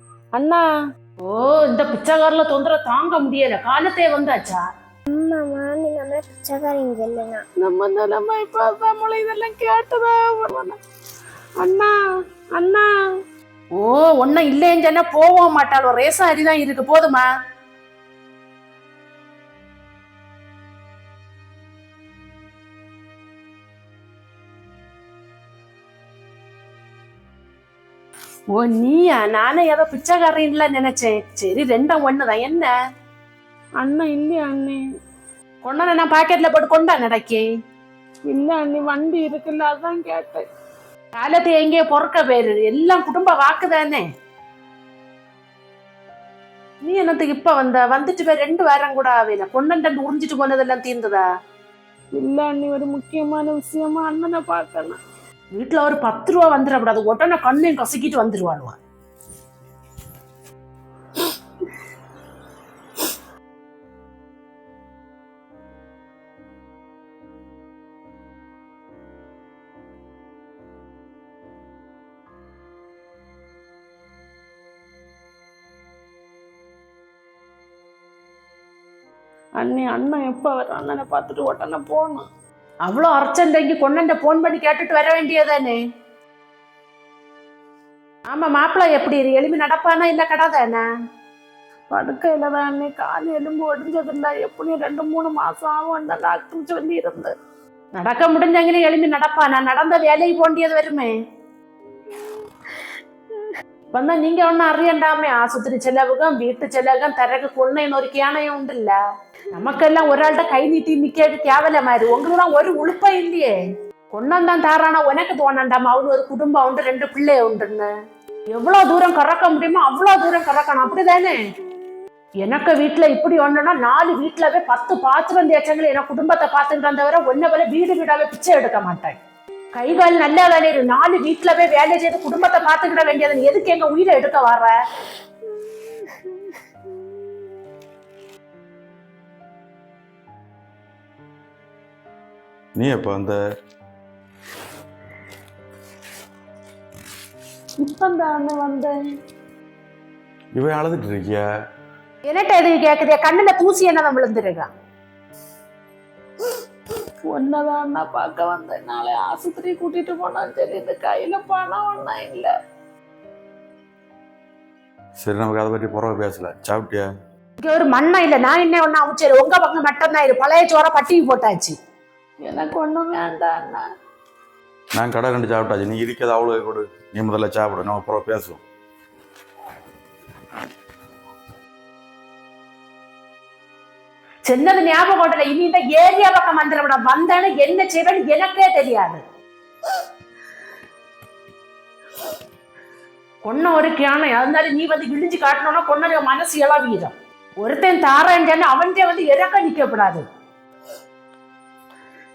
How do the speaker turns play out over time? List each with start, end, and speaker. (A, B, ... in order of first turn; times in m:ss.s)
0:00.4-0:00.6 A
0:01.2-0:04.6 A
0:05.1-0:07.3 B
0:07.6-0:10.7 A
0:11.6-0:11.9 A
0:12.6-0:12.8 A
0:13.8-0:17.3 A
0:28.5-0:32.7 A
0:33.8-0:34.8 A
0:35.6-0:37.4 A
0:38.3-0:40.4 A
0:41.2-0:44.0 A
0:46.8-0:51.2 A
0:52.2-0:55.0 A
0:55.5-0:58.8 A
1:19.6-1:22.2 A
1:22.9-1:25.8 A
1:28.3-1:30.8 A
1:31.9-1:37.3 A
1:38.0-1:41.1 A
1:43.9-1:49.0 A
1:49.5-1:53.6 A
1:54.1-1:57.9 A
1:58.5-2:01.4 A
2:02.4-2:09.2 A
2:09.7-2:14.7 A
2:22.8-2:23.4 C
2:27.8-2:28.9 A
2:30.6-2:31.4 C
2:32.3-2:34.7 A
2:37.3-2:42.5 A
2:45.2-2:47.1 C
2:47.6-2:51.8 A
2:52.4-2:53.8 A
2:55.0-2:58.6 C
3:04.4-3:09.2 A
3:13.4-3:20.2 A